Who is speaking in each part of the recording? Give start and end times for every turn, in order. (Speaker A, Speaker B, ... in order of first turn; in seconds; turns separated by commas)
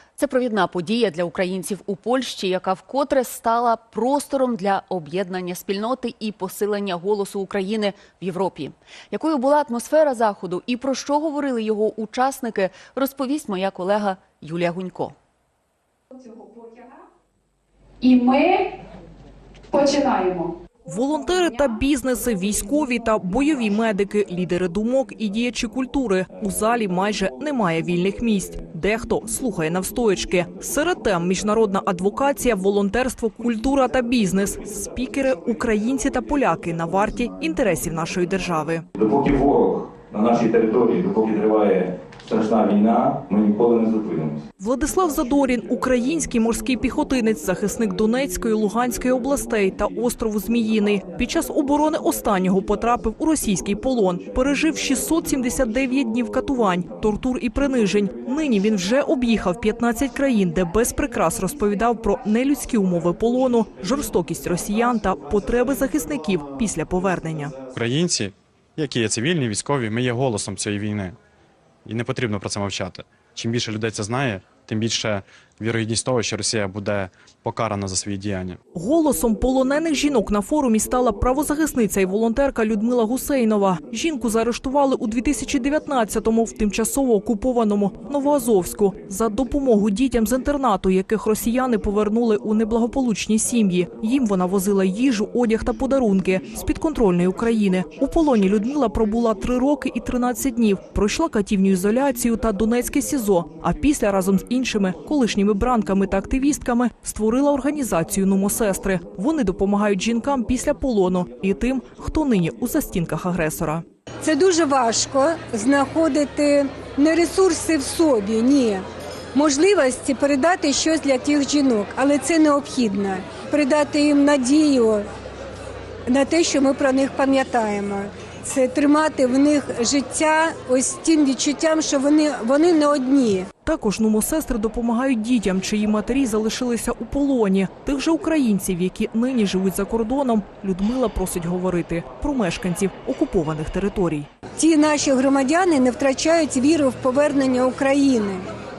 Speaker A: 0.2-15.1, Speaker B: 16.2-16.9, Speaker B: 18.0-18.6, Speaker B: 19.7-20.5, Speaker C: 20.9-38.9, Speaker D: 39.0-44.4, Speaker C: 44.6-67.5, Speaker E: 67.7-71.2, Speaker E: 71.8-78.6, Speaker C: 78.7-113.8, Speaker F: 114.2-118.8, Speaker F: 119.3-125.0, Speaker F: 126.1-133.5, Speaker C: 133.6-144.3, Speaker F: 144.6-148.4